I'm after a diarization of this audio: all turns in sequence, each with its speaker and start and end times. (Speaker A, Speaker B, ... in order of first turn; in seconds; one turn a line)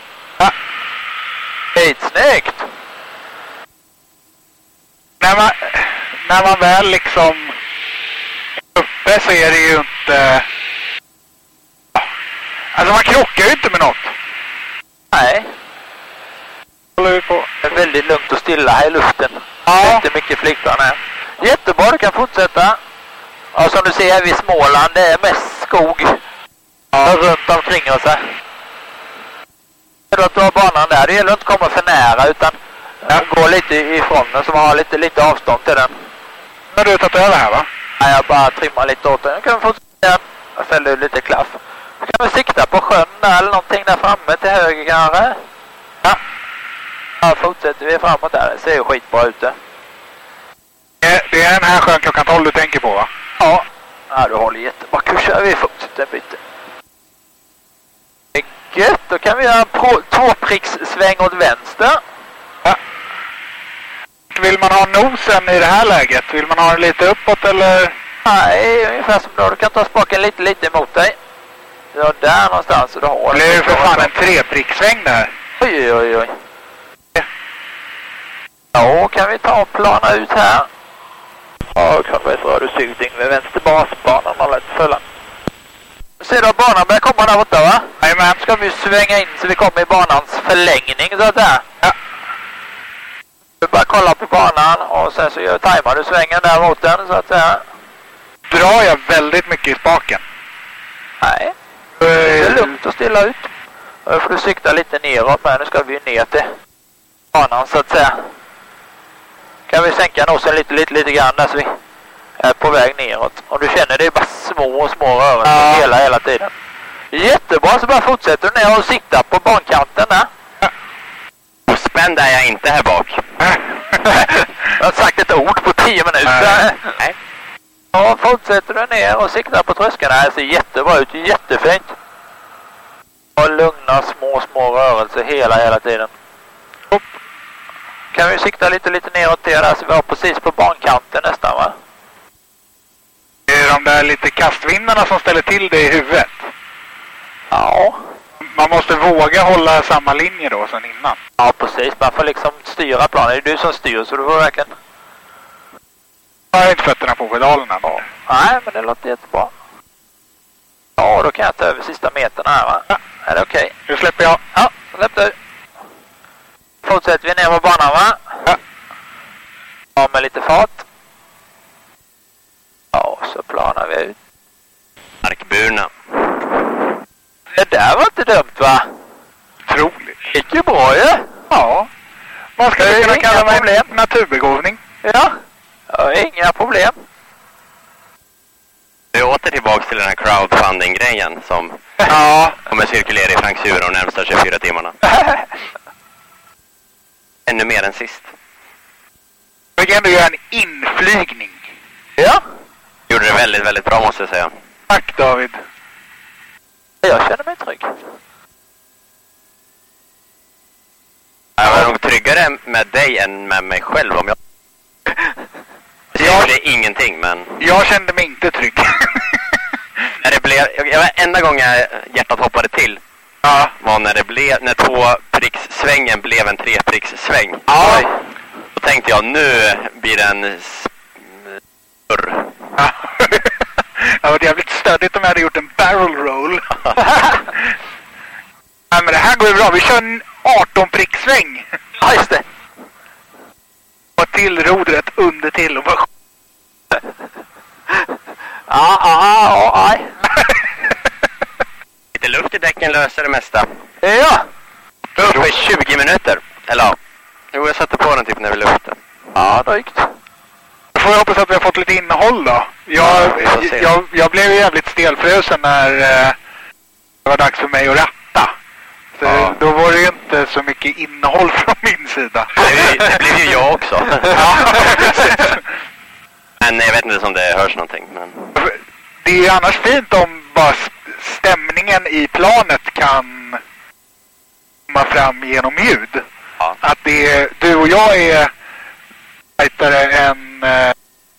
Speaker A: 1.8-2.7
Speaker B: 5.2-7.5
Speaker B: 8.8-10.5
Speaker B: 12.7-14.1
Speaker A: 15.1-15.5
Speaker B: 17.0-17.5
Speaker A: 17.6-22.8
Speaker B: 19.7-20.0
Speaker A: 23.6-26.2
Speaker A: 26.9-28.2
Speaker A: 30.1-35.9
Speaker B: 36.7-37.7
Speaker A: 38.0-45.4
Speaker A: 47.2-49.6
Speaker B: 51.0-53.1
Speaker A: 53.4-56.4
Speaker A: 58.3-62.0
Speaker B: 64.3-68.0
Speaker A: 68.2-71.2
Speaker A: 71.9-74.1
Speaker B: 73.3-75.3
Speaker A: 75.6-76.3
Speaker A: 78.7-80.7
Speaker A: 81.7-85.0
Speaker A: 86.2-91.7
Speaker B: 88.0-88.4
Speaker A: 93.6-97.6
Speaker B: 98.5-100.2
Speaker A: 101.2-101.5
Speaker B: 102.0-102.7
Speaker A: 102.1-103.5
Speaker A: 104.1-106.5
Speaker A: 107.3-108.2
Speaker A: 109.7-111.7
Speaker A: 112.4-116.5
Speaker B: 115.5-115.9
Speaker A: 117.1-120.3
Speaker C: 121.7-123.2
Speaker B: 123.4-124.2
Speaker A: 124.0-126.9
Speaker B: 126.3-126.7
Speaker A: 127.9-131.9
Speaker A: 133.4-136.1
Speaker A: 138.1-141.8
Speaker B: 143.5-146.5
Speaker A: 147.5-148.0
Speaker B: 148.4-151.2
Speaker A: 151.4-154.7
Speaker B: 156.5-158.1
Speaker A: 158.3-159.5
Speaker A: 161.0-163.7
Speaker B: 163.9-164.4
Speaker A: 164.5-165.3
Speaker A: 166.8-168.5
Speaker A: 170.0-170.9
Speaker A: 172.9-174.2
Speaker C: 175.2-176.6
Speaker A: 177.5-178.9
Speaker B: 179.7-180.2
Speaker A: 180.3-181.2
Speaker B: 181.5-181.9
Speaker B: 182.6-184.8
Speaker A: 182.8-183.9
Speaker A: 185.0-185.3
Speaker A: 185.9-186.9
Speaker C: 189.1-192.1
Speaker B: 192.1-192.6
Speaker C: 192.6-195.0
Speaker C: 197.5-198.3
Speaker B: 199.8-201.6
Speaker C: 203.1-204.5
Speaker B: 204.9-205.6
Speaker A: 207.0-207.9
Speaker C: 211.6-214.4
Speaker C: 216.1-217.6
Speaker B: 216.2-216.5
Speaker B: 217.6-219.4
Speaker C: 220.2-223.0
Speaker B: 223.4-223.7
Speaker C: 223.8-227.8
Speaker B: 227.7-228.1
Speaker A: 227.8-228.1
Speaker C: 228.8-230.9
Speaker C: 232.1-232.5
Speaker B: 232.8-236.8
Speaker B: 238.9-241.7
Speaker A: 242.0-242.4
Speaker B: 244.2-246.1
Speaker A: 248.7-250.1
Speaker C: 252.1-253.7
Speaker A: 254.0-254.4
Speaker C: 255.2-257.0
Speaker C: 257.5-259.0
Speaker A: 259.4-260.1
Speaker B: 260.9-266.4
Speaker C: 263.0-263.9
Speaker B: 267.2-268.5
Speaker B: 269.2-272.7
Speaker C: 269.2-269.6
Speaker C: 272.6-275.0
Speaker B: 274.3-275.6
Speaker C: 276.6-278.5
Speaker B: 278.6-283.6
Speaker B: 284.9-286.2
Speaker B: 286.8-288.5
Speaker B: 289.6-290.9